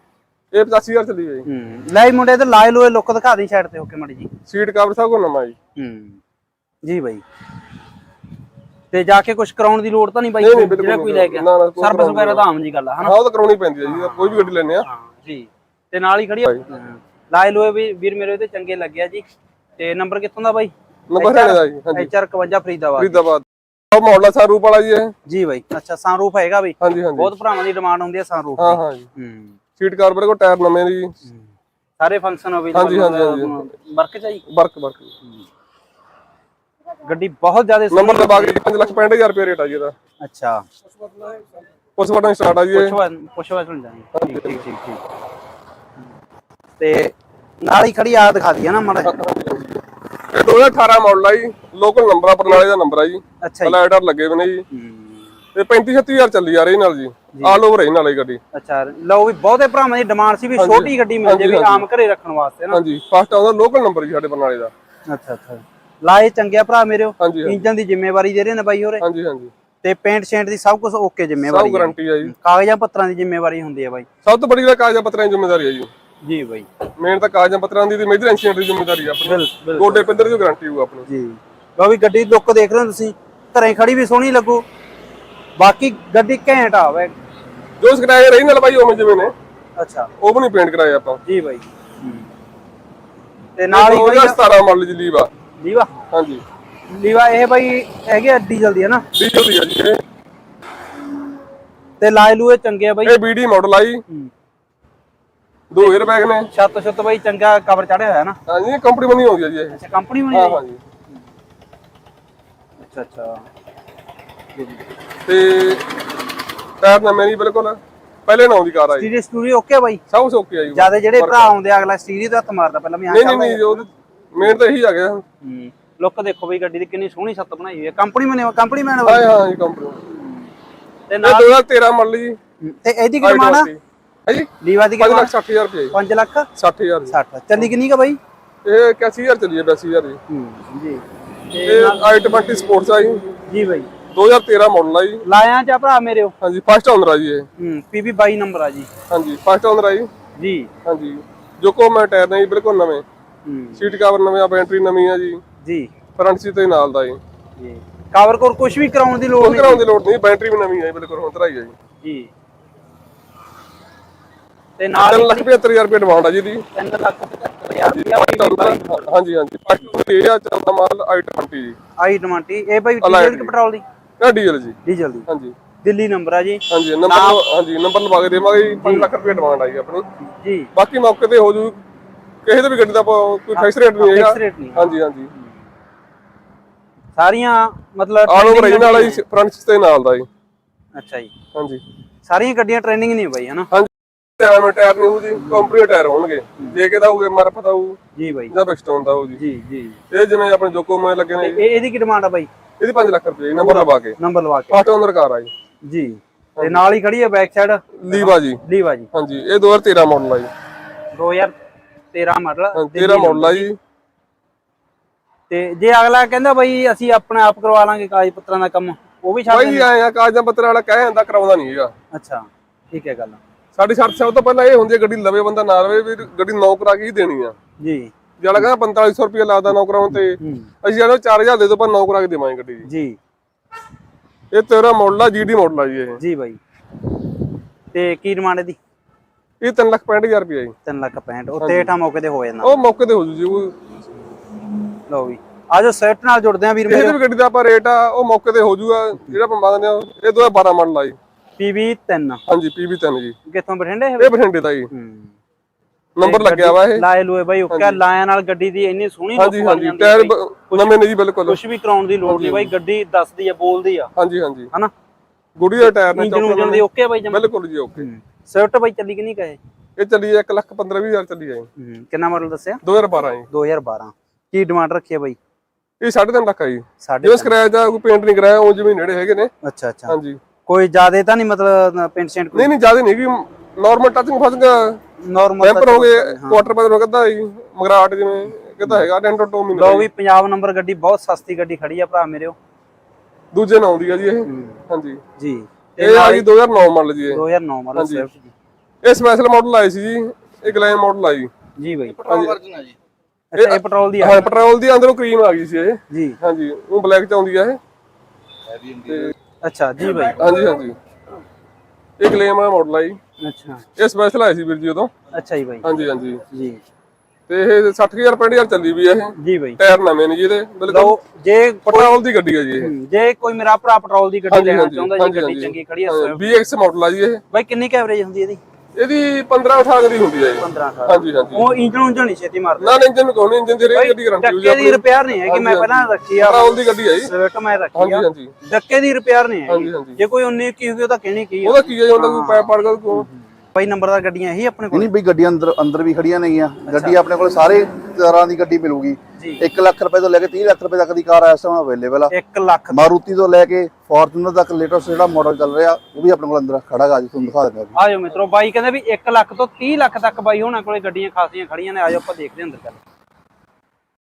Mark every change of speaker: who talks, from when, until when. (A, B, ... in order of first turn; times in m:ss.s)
0:00.5-0:01.5 A
0:01.5-0:04.3 B
0:04.5-0:05.6 A
0:05.8-0:06.2 B
0:06.8-0:07.2 B
0:08.9-0:13.1 B
0:10.4-0:12.5 A
0:13.0-0:14.9 A
0:13.8-0:19.2 B
0:19.8-0:23.2 B
0:21.1-0:22.1 A
0:23.0-0:25.1 A
0:25.3-0:29.6 B
0:26.8-0:27.3 A
0:28.6-0:29.1 A
0:29.8-0:31.1 A
0:32.0-0:34.4 B
0:32.7-0:33.6 A
0:34.5-0:35.1 A
0:37.1-0:38.6 B
0:37.9-0:39.9 A
0:40.2-0:40.6 B
0:41.2-0:43.0 A
0:42.7-0:45.0 B
0:44.2-0:44.6 A
0:46.8-0:49.2 B
0:49.0-0:49.8 A
0:50.3-0:54.6 A
0:53.4-0:53.8 B
0:54.7-0:55.3 B
0:55.6-0:58.4 A
0:57.3-0:57.6 B
0:58.5-1:02.8 B
1:00.6-1:01.8 A
1:02.7-1:04.7 A
1:05.1-1:09.0 B
1:07.2-1:07.6 A
1:09.0-1:09.5 A
1:09.8-1:14.1 B
1:11.5-1:12.3 A
1:14.2-1:15.9 A
1:16.2-1:16.7 B
1:17.0-1:21.1 A
1:19.2-1:20.1 B
1:21.1-1:24.6 B
1:25.6-1:27.1 B
1:27.8-1:29.3 A
1:29.8-1:30.1 B
1:30.2-1:31.2 A
1:31.2-1:32.3 B
1:33.6-1:34.4 B
1:33.7-1:35.3 A
1:35.6-1:35.9 B
1:36.1-1:36.4 A
1:36.9-1:39.0 B
1:39.1-1:40.0 A
1:42.0-1:43.2 B
1:43.0-1:44.0 A
1:45.7-1:46.5 A
1:46.5-1:48.4 B
1:48.5-1:49.8 A
1:49.7-1:50.6 B
1:50.3-1:50.8 A
1:52.8-1:53.4 B
1:54.6-1:54.8 B
1:55.3-1:55.8 A
1:56.8-1:59.1 A
1:59.0-2:00.0 B
2:00.1-2:01.5 A
2:00.7-2:03.9 B
2:03.1-2:05.2 A
2:05.4-2:09.3 B
2:09.0-2:10.0 A
2:10.1-2:10.5 B
2:11.1-2:11.6 B
2:11.2-2:12.4 A
2:12.6-2:13.7 B
2:13.2-2:15.9 A
2:14.6-2:15.3 B
2:15.9-2:16.5 B
2:16.6-2:17.7 A
2:17.1-2:18.2 B
2:18.6-2:20.2 A
2:20.3-2:22.1 B
2:21.6-2:23.3 A
2:23.5-2:23.9 B
2:24.1-2:25.2 A
2:25.2-2:26.3 B
2:26.4-2:27.5 A
2:27.6-2:28.9 B
2:29.1-2:30.1 A
2:30.4-2:30.7 B
2:30.9-2:33.0 A
2:33.4-2:33.9 B
2:33.8-2:35.4 A
2:35.6-2:35.9 B
2:36.2-2:37.2 A
2:37.6-2:39.8 B
2:39.4-2:41.8 A
2:42.0-2:42.3 B
2:44.8-2:45.5 B
2:45.1-2:46.6 A
2:46.8-2:49.1 B
2:47.8-2:51.8 A
2:52.0-2:53.8 B
2:53.0-2:53.5 A
2:54.2-2:55.5 A
2:54.8-2:55.3 B
2:55.8-2:57.4 B
2:56.7-3:00.1 A
2:58.8-2:59.1 B
3:00.2-3:00.7 B
3:00.7-3:01.8 A
3:02.5-3:05.3 A
3:03.6-3:05.5 B
3:07.2-3:09.2 B
3:08.3-3:10.3 A
3:11.0-3:11.3 B
3:11.5-3:11.8 A
3:12.2-3:13.7 B
3:13.7-3:18.0 A
3:15.4-3:15.7 B
3:18.2-3:18.5 B
3:18.5-3:19.4 A
3:19.4-3:20.0 B
3:20.1-3:21.6 A
3:21.4-3:22.5 B
3:22.8-3:24.2 A
3:23.5-3:24.8 B
3:24.7-3:25.5 A
3:25.8-3:29.1 B
3:26.6-3:26.8 A
3:28.0-3:28.6 A
3:29.1-3:30.5 A
3:31.1-3:31.6 B
3:32.1-3:33.7 B
3:32.8-3:33.8 A
3:35.5-3:39.9 B
3:39.5-3:41.9 A
3:42.1-3:43.4 B
3:43.8-3:47.6 A
3:47.8-3:48.6 B
3:48.4-3:52.9 A
3:50.3-3:50.7 B
3:52.9-3:53.2 B
3:54.5-3:56.2 A
3:56.2-3:56.6 B
3:57.9-3:58.8 B
3:59.6-4:00.8 A
4:00.9-4:02.7 B
4:01.6-4:01.9 A
4:02.6-4:03.8 A
4:05.1-4:07.2 B
4:06.9-4:11.2 A
4:11.6-4:12.4 B
4:12.5-4:13.4 A
4:13.5-4:14.3 B
4:14.2-4:14.9 A
4:14.9-4:15.3 B
4:16.2-4:17.0 A
4:16.2-4:24.1 B
4:17.7-4:18.0 A
4:19.4-4:21.6 A
4:22.2-4:22.7 A
4:24.2-4:24.7 A
4:25.6-4:28.1 A
4:25.8-4:27.4 B
4:28.0-4:29.6 B
4:30.0-4:31.7 A
4:31.8-4:32.8 B
4:32.8-4:33.5 A
4:33.5-4:35.4 B
4:36.0-4:39.5 A
4:37.0-4:37.5 B
4:39.6-4:42.7 B
4:40.1-4:40.4 A
4:42.5-4:45.0 A
4:45.2-4:46.7 B
4:45.6-4:50.1 A
4:49.7-4:52.6 B
4:53.5-4:55.2 A
4:54.5-4:54.8 B
4:55.4-4:56.5 B
4:56.0-4:57.4 A
4:57.3-4:58.5 B
4:58.0-4:58.3 A
4:59.0-5:01.5 A
5:01.8-5:02.2 B
5:02.2-5:02.9 C
5:02.3-5:02.6 A
5:03.5-5:04.4 B
5:03.6-5:07.8 A
5:06.1-5:06.4 B
5:08.8-5:09.3 C
5:09.1-5:09.3 A
5:09.6-5:10.4 B
5:10.4-5:11.0 A
5:12.2-5:13.2 A
5:13.4-5:13.8 B
5:14.0-5:15.1 A
5:15.3-5:15.9 B
5:15.8-5:16.4 A
5:16.5-5:16.8 B
5:17.5-5:21.2 A
5:19.4-5:19.8 B
5:20.9-5:22.2 B
5:21.9-5:22.9 A
5:22.7-5:26.6 B
5:24.5-5:27.4 A
5:27.5-5:28.6 B
5:29.0-5:31.7 A
5:30.6-5:33.0 B
5:32.8-5:37.3 A
5:33.9-5:45.1 B
5:38.0-5:38.5 A
5:39.7-5:40.2 A
5:41.6-5:43.3 A
5:44.9-5:52.3 C
5:46.9-5:47.2 B
5:49.4-5:49.6 B
5:52.3-5:53.1 B
5:52.9-5:58.0 C
5:58.0-6:03.0 B